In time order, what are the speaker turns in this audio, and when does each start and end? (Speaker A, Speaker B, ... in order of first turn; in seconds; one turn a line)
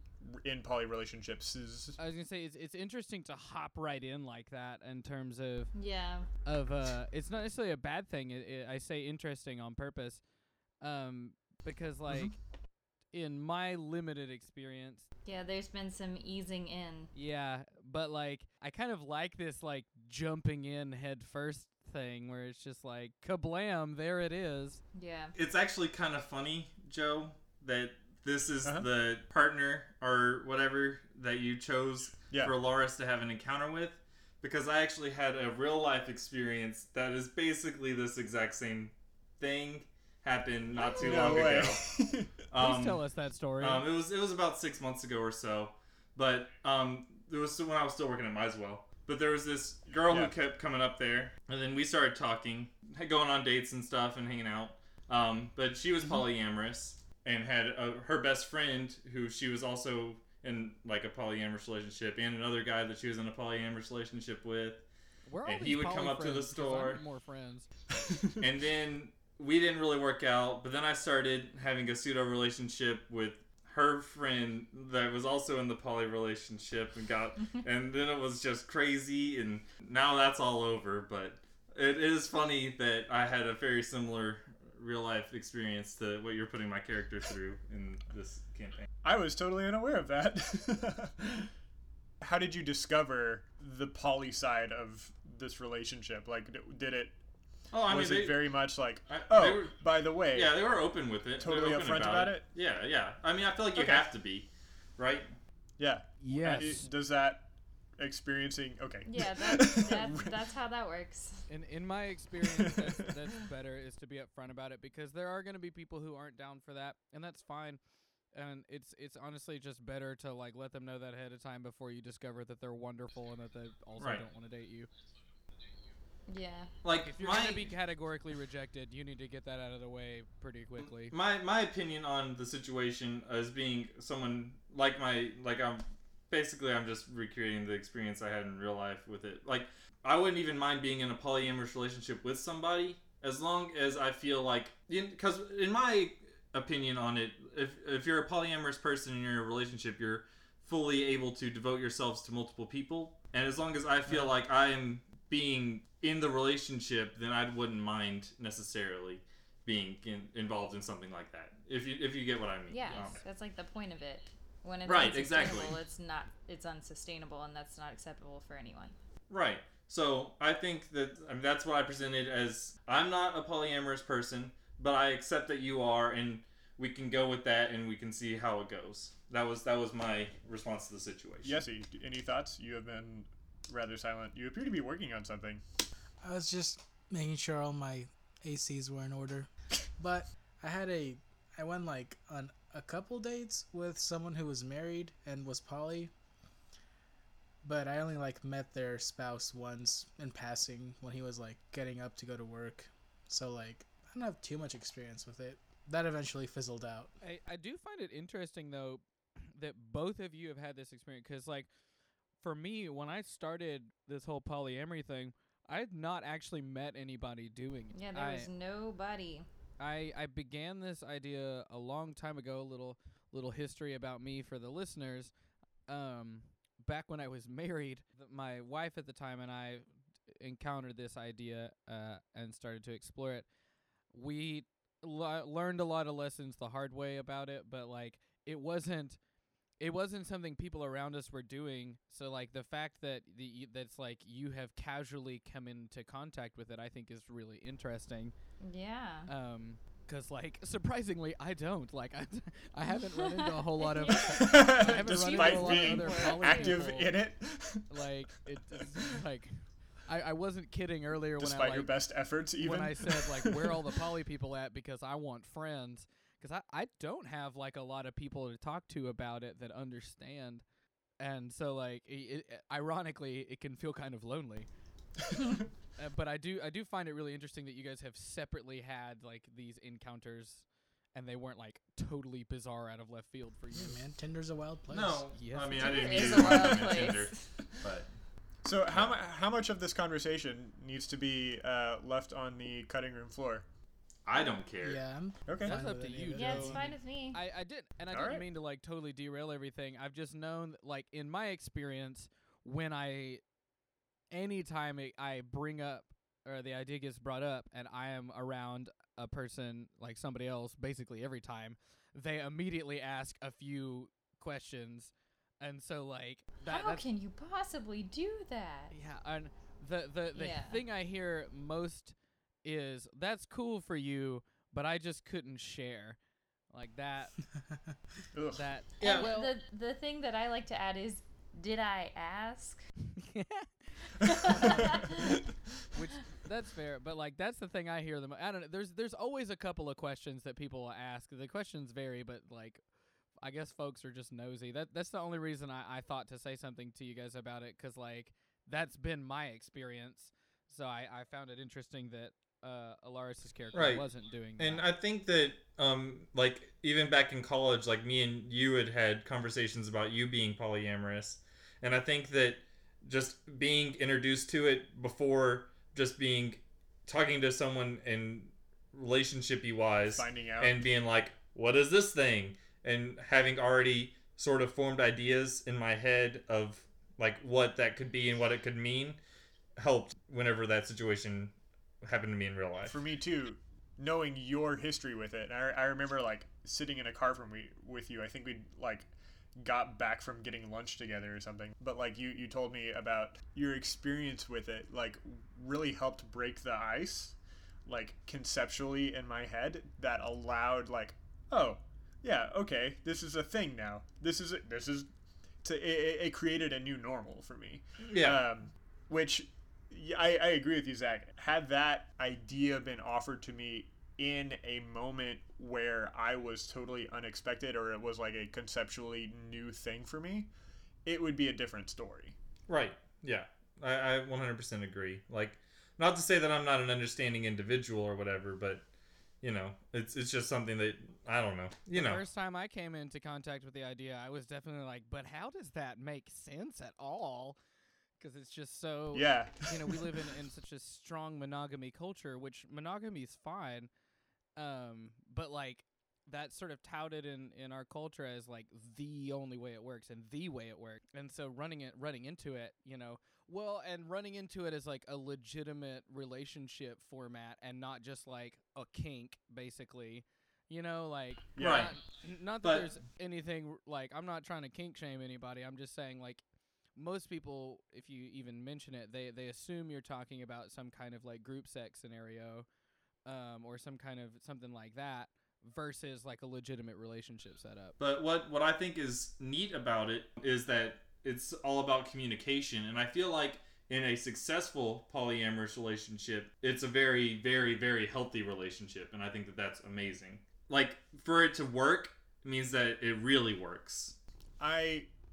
Speaker A: 0.2-2.0
Speaker B: 2.0-5.7
Speaker C: 5.7-6.3
Speaker B: 6.4-10.2
Speaker B: 10.8-12.4
Speaker B: 13.1-15.1
Speaker C: 15.2-17.1
Speaker B: 17.1-24.8
Speaker C: 24.9-25.3
Speaker D: 25.3-43.0
Speaker C: 40.7-41.5
Speaker A: 41.0-42.4
Speaker B: 42.5-43.9
Speaker D: 43.6-64.8
Speaker B: 65.3-67.7
Speaker D: 65.4-67.0
Speaker A: 68.1-68.3
Speaker D: 68.4-88.9
Speaker A: 89.0-91.5
Speaker A: 92.2-97.2
Speaker D: 97.7-99.8
Speaker A: 97.8-100.6
Speaker D: 100.3-105.3
Speaker A: 101.4-102.5
Speaker A: 103.7-104.1
Speaker A: 105.8-110.4
Speaker B: 106.2-106.9
Speaker C: 109.0-111.5
Speaker B: 111.5-117.8
Speaker A: 112.4-112.9
Speaker B: 118.3-124.9
Speaker D: 124.0-124.2
Speaker C: 126.3-126.7
Speaker D: 126.8-127.7
Speaker B: 127.0-131.1
Speaker D: 130.8-163.2
Speaker C: 162.7-168.9
Speaker D: 164.8-165.8
Speaker D: 169.3-181.6
Speaker A: 181.4-185.6
Speaker E: 186.2-196.1
Speaker E: 197.6-207.1
Speaker B: 207.2-211.7
Speaker B: 212.4-218.5
Speaker C: 217.9-219.5
Speaker B: 219.8-225.3
Speaker B: 225.9-233.5
Speaker B: 234.1-239.2
Speaker B: 239.8-248.3
Speaker C: 248.6-249.3
Speaker B: 249.3-257.2
Speaker C: 253.4-256.9
Speaker A: 254.2-257.9
Speaker B: 257.9-261.9
Speaker A: 261.4-263.9
Speaker B: 262.6-270.6
Speaker B: 271.2-274.7
Speaker B: 275.9-284.0
Speaker E: 283.7-285.3
Speaker D: 284.9-288.1
Speaker B: 285.3-287.1
Speaker C: 285.7-287.5
Speaker A: 286.3-286.8
Speaker A: 288.6-293.6
Speaker D: 288.9-289.1
Speaker D: 294.2-295.0
Speaker E: 294.8-296.9
Speaker A: 295.5-295.8
Speaker B: 295.6-303.4
Speaker C: 296.3-297.4
Speaker A: 298.1-298.4
Speaker B: 304.3-317.0
Speaker C: 316.6-318.9
Speaker B: 318.9-326.2
Speaker C: 320.3-320.8
Speaker B: 326.7-327.4
Speaker A: 328.3-328.6
Speaker B: 328.5-329.6
Speaker C: 329.0-332.8
Speaker D: 329.0-329.3
Speaker B: 333.1-333.7
Speaker C: 334.2-335.1
Speaker B: 334.5-335.1
Speaker B: 335.9-342.8
Speaker B: 343.4-354.9
Speaker D: 353.7-379.2
Speaker A: 370.1-370.8
Speaker D: 379.8-383.0
Speaker A: 382.9-405.1
Speaker A: 405.6-420.5
Speaker D: 408.0-408.4
Speaker A: 421.0-422.4
Speaker D: 422.7-428.8
Speaker D: 429.4-432.2
Speaker B: 431.9-437.6
Speaker B: 438.2-443.9
Speaker A: 439.1-440.0
Speaker B: 444.6-466.4
Speaker A: 461.6-461.9
Speaker D: 461.6-462.0
Speaker D: 462.6-462.9
Speaker B: 466.9-472.7
Speaker B: 473.2-477.9
Speaker D: 478.0-494.2
Speaker A: 494.6-495.1